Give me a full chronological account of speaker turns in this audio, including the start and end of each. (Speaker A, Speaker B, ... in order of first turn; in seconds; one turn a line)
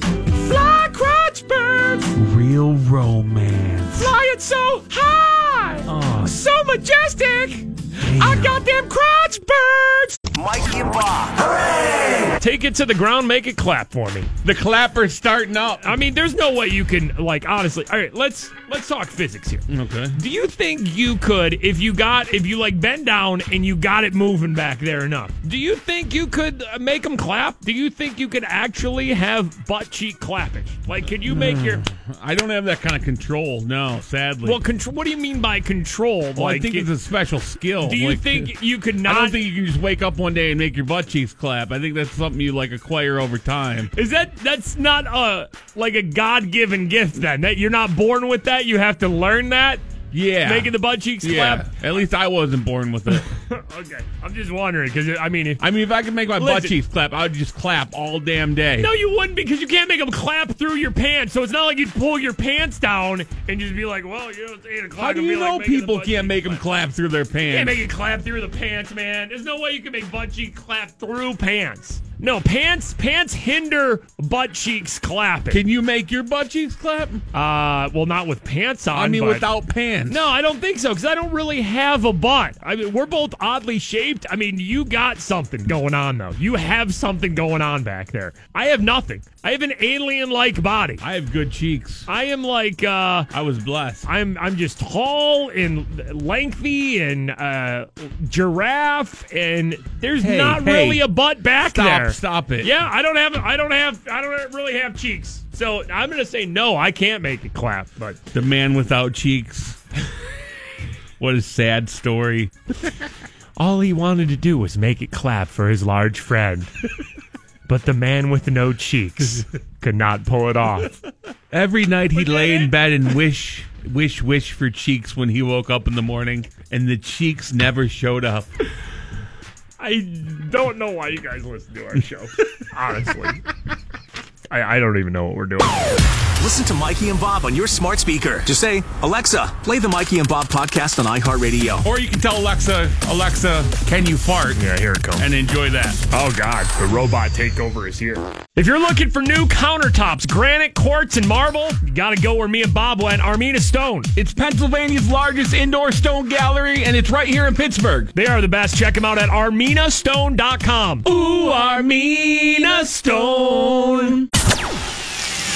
Speaker A: 0.3-2.1
Speaker B: 2.1-4.1
Speaker A: 4.0-10.2
Speaker B: 5.9-6.4
Speaker B: 8.0-8.6
Speaker C: 10.3-11.9
Speaker A: 12.4-14.3
Speaker B: 14.4-15.9
Speaker A: 15.8-31.8
Speaker B: 19.7-20.2
Speaker B: 31.3-34.6
Speaker A: 34.4-36.9
Speaker B: 36.4-38.5
Speaker A: 37.8-39.5
Speaker B: 39.0-43.9
Speaker A: 44.0-49.8
Speaker B: 50.1-53.3
Speaker A: 50.4-51.8
Speaker A: 53.1-55.6
Speaker B: 55.6-58.9
Speaker A: 56.4-56.8
Speaker A: 58.8-66.7
Speaker B: 65.0-67.8
Speaker A: 67.5-75.6
Speaker B: 75.5-77.2
Speaker A: 77.3-79.5
Speaker B: 78.9-80.2
Speaker A: 80.1-91.0
Speaker B: 91.0-92.1
Speaker A: 92.1-93.3
Speaker B: 93.3-94.1
Speaker A: 94.1-108.2
Speaker B: 100.2-101.0
Speaker B: 101.6-102.7
Speaker B: 108.3-109.8
Speaker B: 111.2-112.5
Speaker A: 113.6-116.7
Speaker A: 117.7-121.0
Speaker B: 121.5-128.5
Speaker A: 122.2-122.8
Speaker A: 129.8-133.4
Speaker A: 134.5-135.9
Speaker C: 136.4-141.9
Speaker B: 141.8-144.6
Speaker A: 144.6-145.3
Speaker B: 145.2-146.0
Speaker A: 146.1-154.1
Speaker B: 154.2-158.1
Speaker A: 158.2-164.2